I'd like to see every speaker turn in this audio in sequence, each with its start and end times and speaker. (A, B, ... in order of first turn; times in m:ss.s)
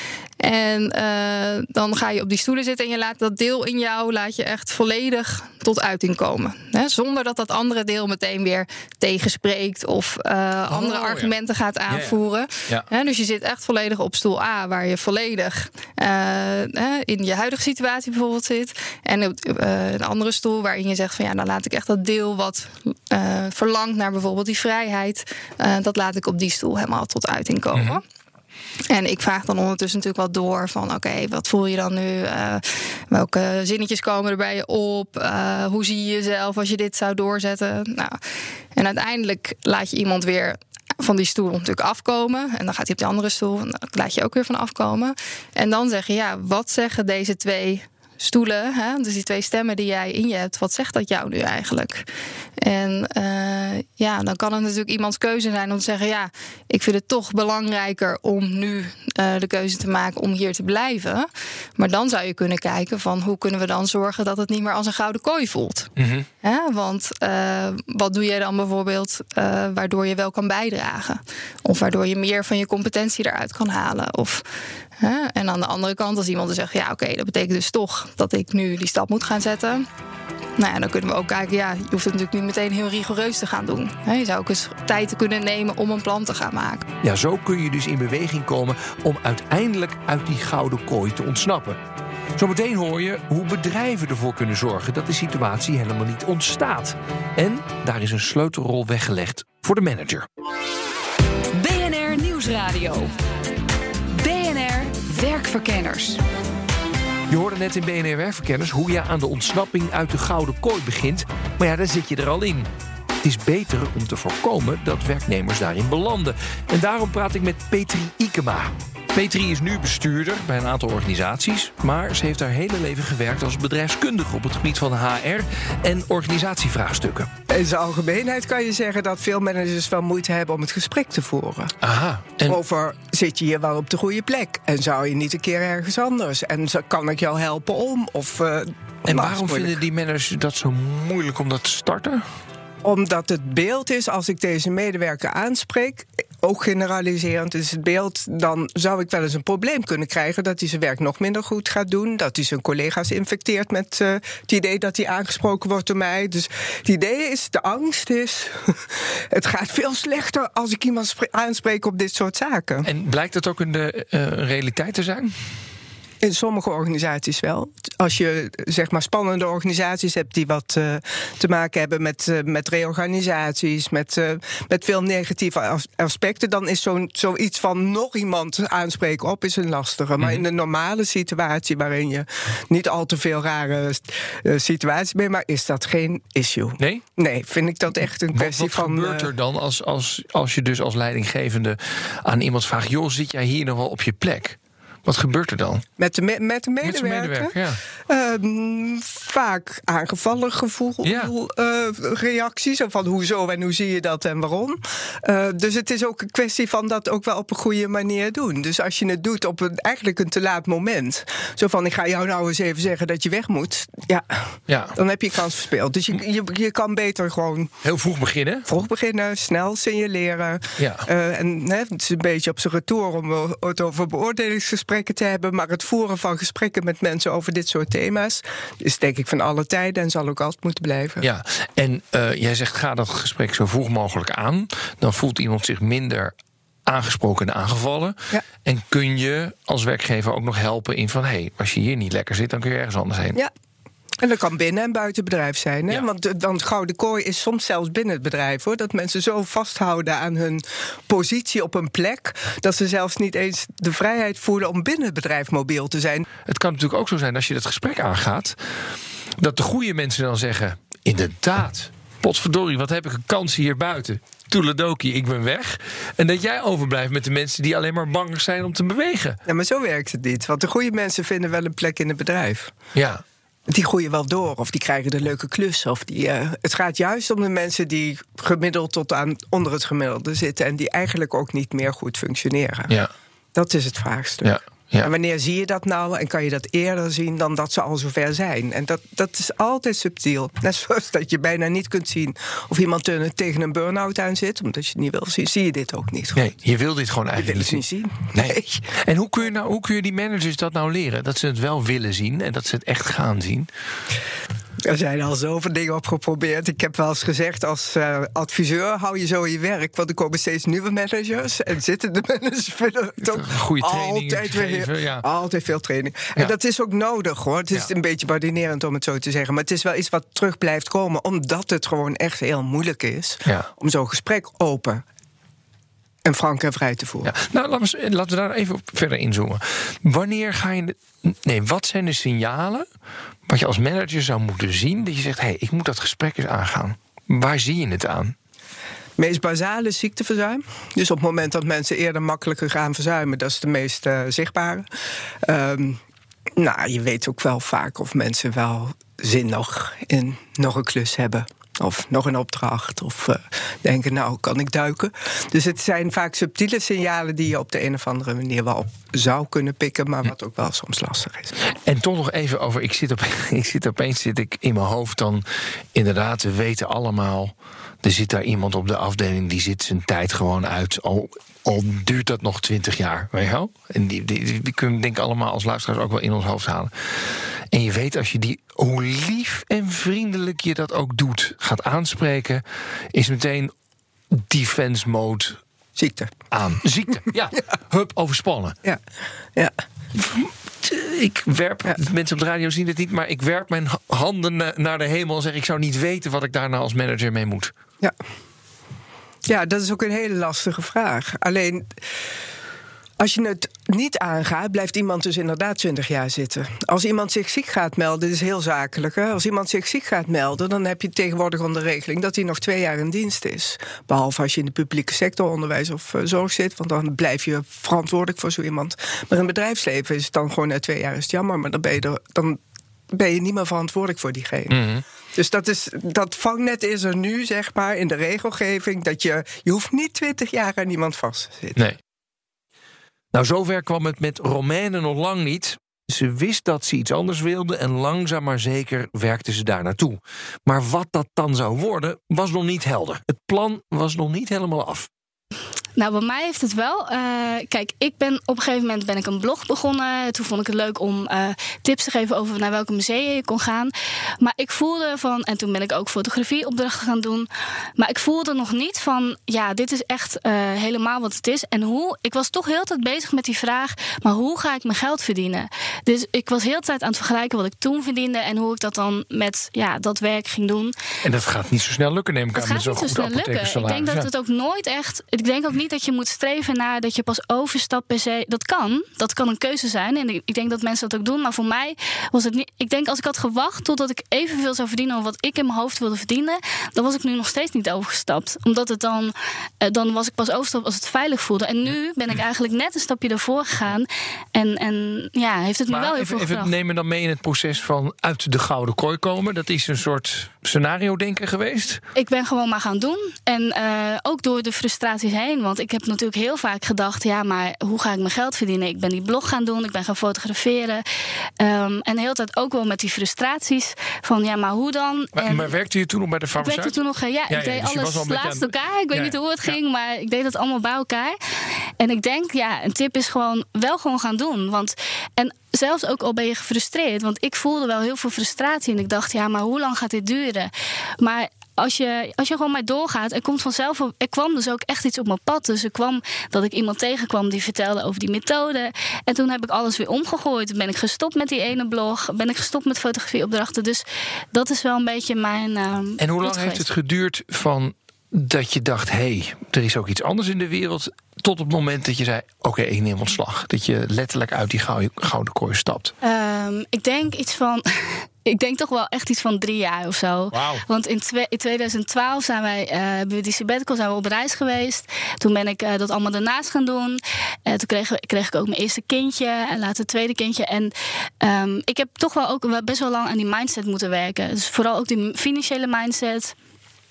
0:00.4-0:28.0 A
0:10.7-0:11.3 B
0:11.9-0:12.9 B
0:27.7-0:28.0 B
0:28.9-0:38.2 A
0:38.8-0:52.1 A
0:52.6-1:05.9 A
1:06.0-1:06.3 B
1:06.4-1:14.5 A
1:15.0-1:19.9 A
1:20.6-1:26.9 A
1:27.0-1:31.8 B
1:32.4-1:40.3 B
1:41.5-1:43.1 C
1:44.1-1:46.2 C
1:47.3-1:52.7 B
1:53.2-2:07.3 B
2:07.5-2:11.7 D
2:11.8-2:12.6 B
2:12.5-2:19.8 D
2:19.1-2:22.2 B
2:22.8-2:42.9 D
2:42.8-2:45.3 B
2:46.2-3:09.3 D
3:06.8-3:07.0 B
3:08.3-3:15.8 B
3:16.0-3:17.6 D
3:16.8-3:17.8 B
3:18.1-3:37.7 D
3:21.0-3:21.3 B
3:34.7-3:35.0 B
3:37.8-3:38.7 B
3:38.7-3:51.3 D
3:40.8-3:41.1 B
3:51.2-3:56.3 B
3:56.9-4:03.4 B
4:04.2-4:16.3 D
4:16.5-4:18.6 B
4:19.4-4:29.4 B
4:29.5-4:32.7 D
4:33.0-4:33.2 B
4:33.7-4:42.9 D
4:43.5-4:56.4 D
4:44.4-4:45.1 B
4:56.4-4:57.8 B
4:57.4-4:58.9 D
4:58.3-5:03.7 B
5:04.8-5:25.0 D
5:13.2-5:15.3 B
5:26.2-5:27.3 D
5:27.2-5:32.9 B
5:33.5-5:38.3 B
5:39.2-5:44.9 D
5:45.4-5:46.0 D
5:46.6-6:01.6 D
6:01.9-6:05.4 B
6:06.0-6:22.6 B
6:23.1-6:23.7 B
6:24.3-6:25.6 B
6:26.0-6:26.3 D
6:26.5-6:28.8 B
6:30.2-6:37.7 B
6:39.5-6:42.0 D
6:43.2-7:04.8 D
7:04.7-7:05.0 B
7:05.3-7:11.8 D
7:13.3-7:25.1 B
7:26.0-7:50.9 E
7:51.2-7:54.3 B
7:52.6-8:16.7 E
8:15.9-8:22.0 B
8:22.2-8:31.0 E
8:31.6-8:35.7 E
8:35.4-8:37.0 B
8:36.6-8:41.4 E
8:37.5-8:39.8 B
8:42.0-9:06.8 E
9:06.2-9:16.1 B
9:16.2-9:36.6 E
9:20.5-9:20.8 B